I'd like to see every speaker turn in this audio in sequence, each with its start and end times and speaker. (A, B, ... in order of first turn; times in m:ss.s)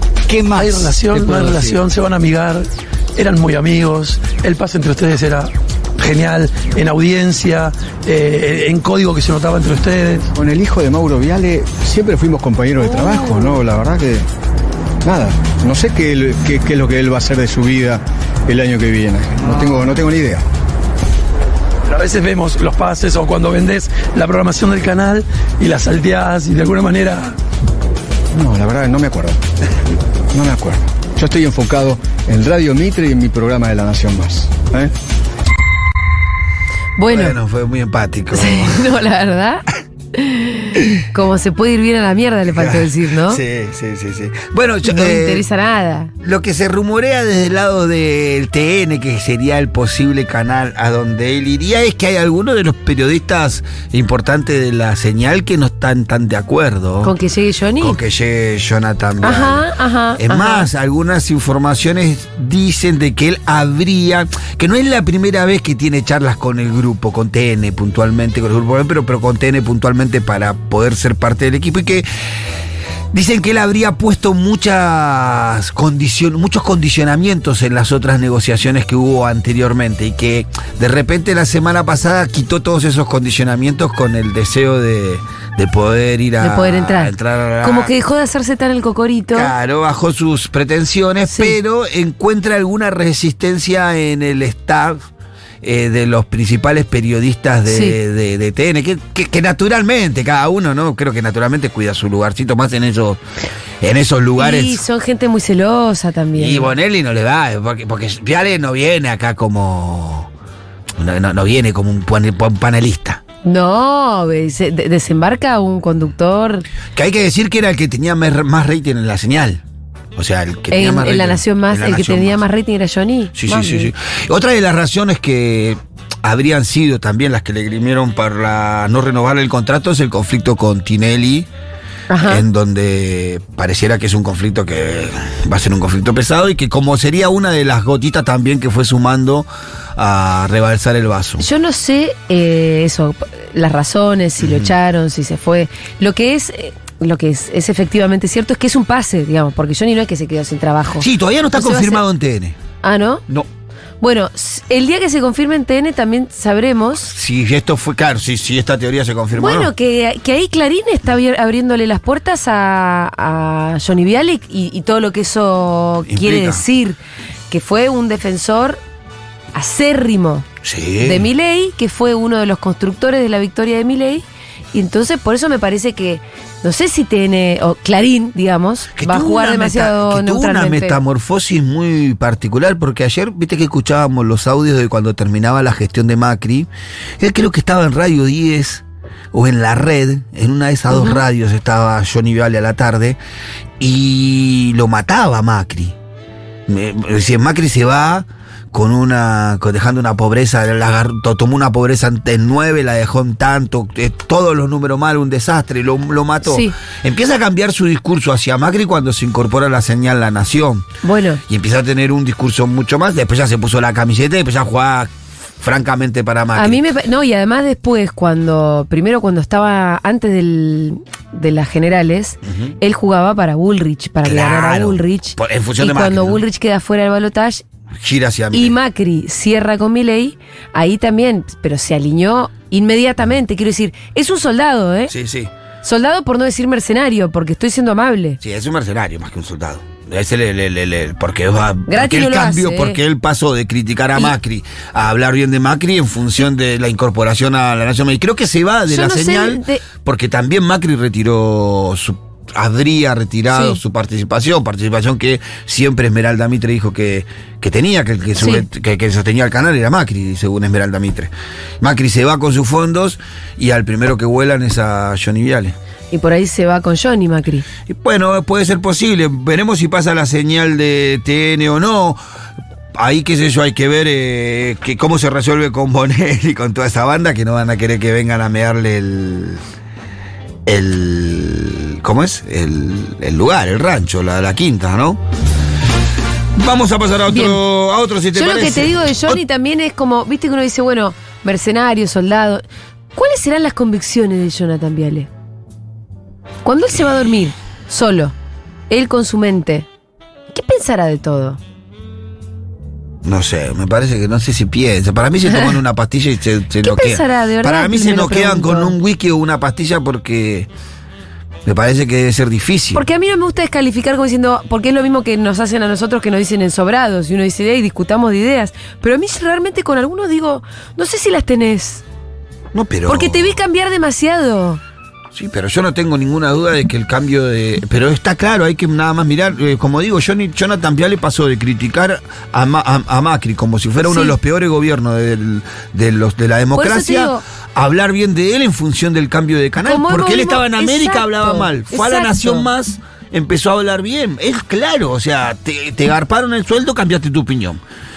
0:00.3-0:01.8 A
0:00.5-0:10.3 B
0:10.3-0:14.2 A
0:13.0-0:13.4 C
0:15.0-0:20.4 A
0:21.8-0:27.4 B
0:28.3-0:29.4 A
0:30.3-0:34.9 A
0:37.0-0:37.4 C
0:37.1-0:38.9 D
0:38.3-0:39.6 C
0:40.2-0:43.4 C
0:42.5-0:45.4 D
0:44.8-0:46.1 C
0:46.2-0:57.1 D
0:57.0-0:58.0 C
0:57.8-0:59.6 D
0:59.2-1:00.7 C
1:00.2-1:12.0 D
1:13.1-1:27.9 D
1:26.4-1:29.5 C
1:29.3-1:35.0 D
1:31.3-1:31.6 C
1:35.6-1:43.2 D
1:37.7-1:38.0 C
1:43.8-1:44.8 D
1:44.4-1:46.7 C
1:46.4-1:50.3 D
1:51.0-1:53.2 D
1:53.4-1:56.6 C
1:56.9-1:59.6 D
2:00.2-2:02.4 D
2:00.7-2:03.9 C
2:03.4-2:11.5 D
2:12.1-2:12.4 C
2:12.2-2:21.4 D
2:21.4-2:32.0 C
2:24.4-2:24.7 D
2:31.0-2:32.6 D
2:32.8-2:33.2 C
2:34.0-2:37.1 C
2:37.0-2:39.7 D
2:39.3-2:47.0 C
2:46.1-2:46.6 D
2:47.5-2:48.8 C
2:49.5-2:50.4 C
2:50.6-2:51.2 D
2:51.0-3:01.0 C
2:59.0-3:06.7 D
3:07.2-3:13.2 D
3:10.9-3:11.2 C
3:13.8-3:15.9 D
3:16.7-3:30.8 D
3:26.4-3:26.7 C
3:31.0-3:31.4 C
3:31.5-3:36.8 D
3:36.5-3:47.6 C
3:42.4-3:42.7 D
3:44.2-3:46.4 D
3:48.0-3:48.7 D
3:48.5-3:55.1 C
3:55.1-3:55.5 D
3:55.8-3:58.4 C
3:58.4-4:25.7 D
4:01.9-4:03.0 C
4:08.9-4:09.8 C
4:13.5-4:13.8 C
4:18.4-4:18.7 C
4:26.1-4:27.6 C
4:27.9-4:32.2 D
4:33.0-4:39.6 D
4:40.6-4:45.2 D
4:46.6-4:49.4 D
4:47.3-4:47.6 C
4:48.3-4:52.6 C
4:53.1-4:55.3 C
4:56.6-4:58.3 C
4:58.9-4:59.9 C
5:00.5-5:01.6 C
5:03.2-5:10.7 D
5:06.8-5:08.9 C
5:11.6-5:13.0 D
5:12.9-5:22.0 C
5:22.7-5:23.6 D
5:23.1-5:24.8 C
5:25.3-5:47.8 D
5:34.0-5:34.4 C
5:36.7-5:37.4 C
5:39.8-5:42.7 C